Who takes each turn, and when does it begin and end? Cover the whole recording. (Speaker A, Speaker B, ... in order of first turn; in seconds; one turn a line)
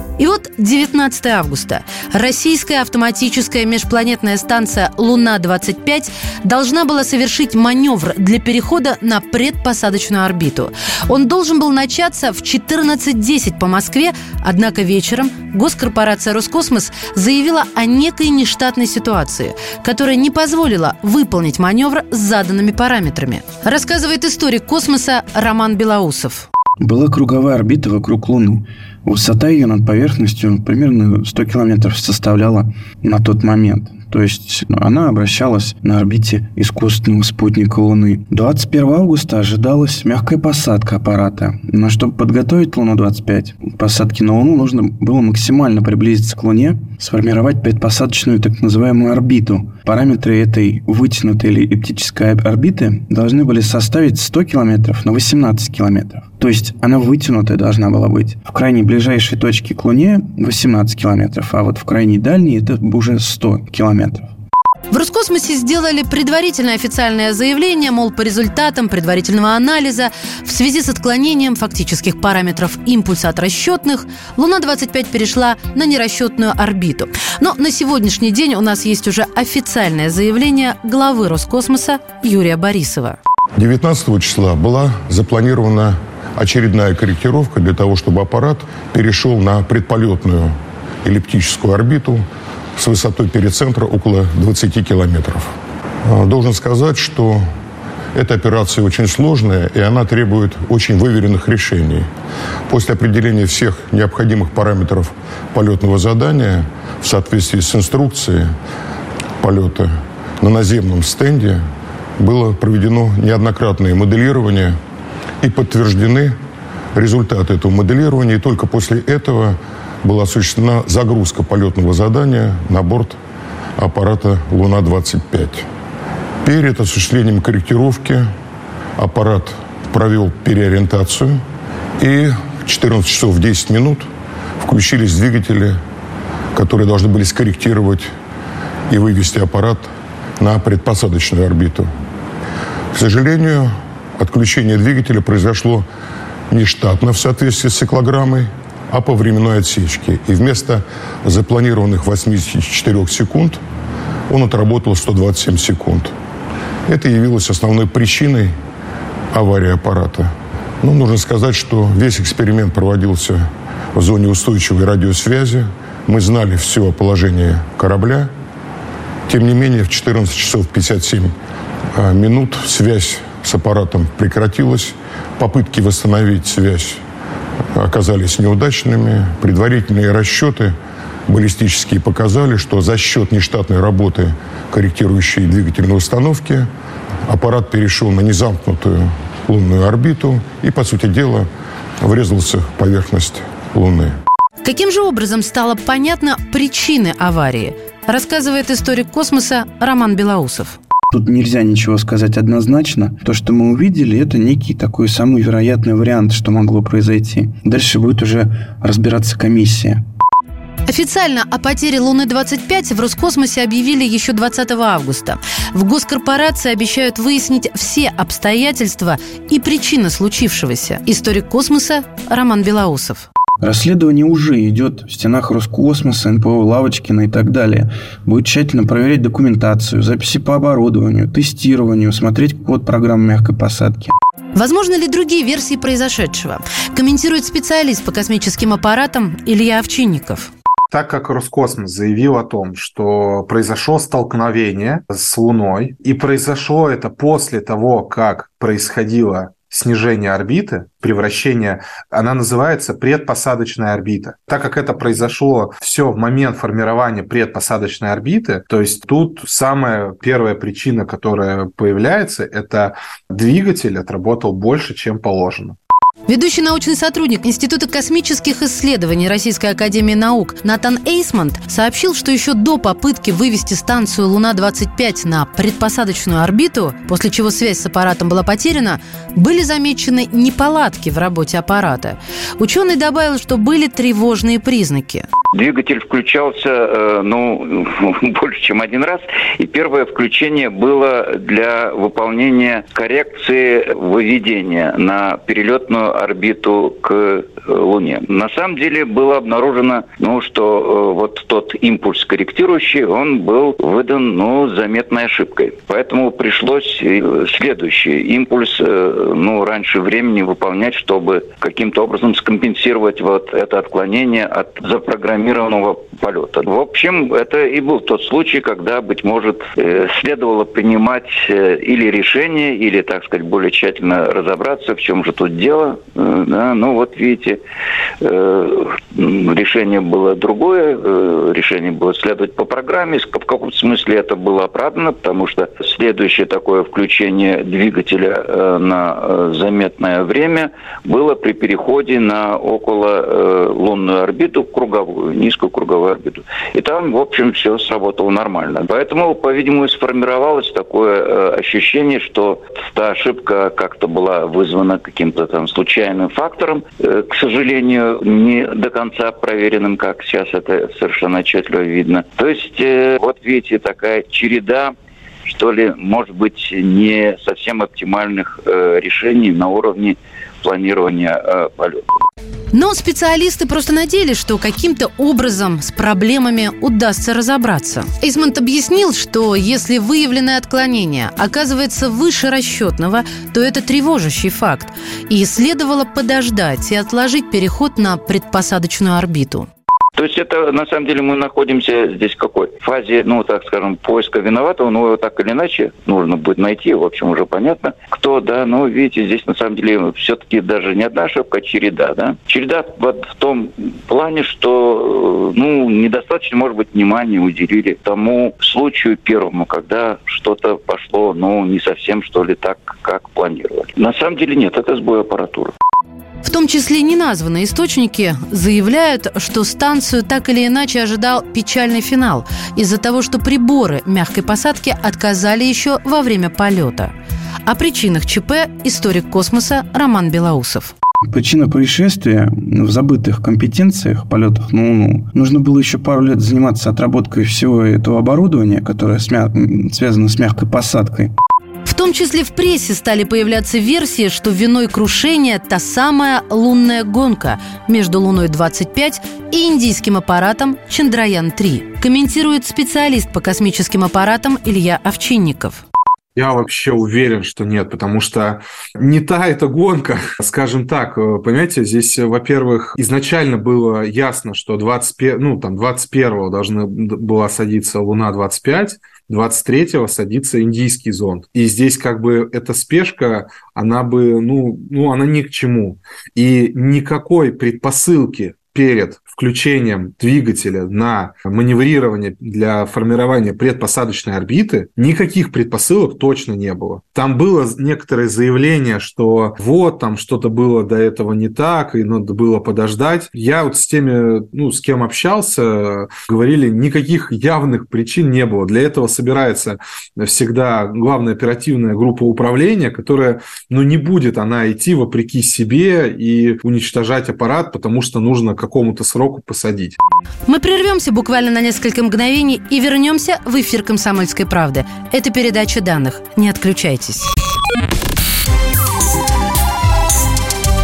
Speaker A: 0.2-26.5
Speaker B: 26.8-64.3
Speaker A: 64.9-83.2
Speaker C: 83.6-92.2
Speaker C: 92.8-95.5
Speaker C: 96.0-97.4
Speaker C: 98.1-102.1
Speaker C: 102.7-108.5
Speaker C: 109.4-111.6
Speaker C: 112.2-114.8
Speaker C: 115.4-116.3
Speaker C: 116.9-123.2
Speaker C: 123.8-125.7
Speaker C: 126.4-128.3
Speaker C: 129.0-131.4
Speaker C: 132.0-134.1
Speaker C: 134.6-135.8
Speaker C: 136.5-138.1
Speaker C: 138.9-141.9
Speaker C: 142.9-145.8
Speaker C: 146.5-153.6
Speaker C: 154.3-156.1
Speaker C: 156.9-158.5
Speaker C: 159.3-160.3
Speaker C: 160.8-168.3
Speaker C: 169.3-171.3
Speaker C: 171.9-177.0
Speaker C: 177.7-180.7
Speaker C: 181.3-186.7
Speaker C: 187.2-191.5
Speaker C: 192.0-194.2
Speaker A: 194.6-200.8
Speaker B: 201.1-210.0
Speaker A: 210.8-223.3
Speaker B: 223.6-234.2
Speaker A: 234.5-240.5
Speaker D: 240.9-265.8
Speaker A: 266.3-285.2
Speaker E: 285.5-327.6
Speaker E: 328.2-364.9
Speaker E: 365.4-372.0
Speaker A: 372.7-389.7
Speaker E: 390.1-415.7
Speaker A: 416.4-427.1
Speaker A: 427.6-430.9
Speaker B: 431.3-441.3
Speaker A: 441.9-455.8
Speaker D: 456.4-510.0
Speaker A: 510.5-517.3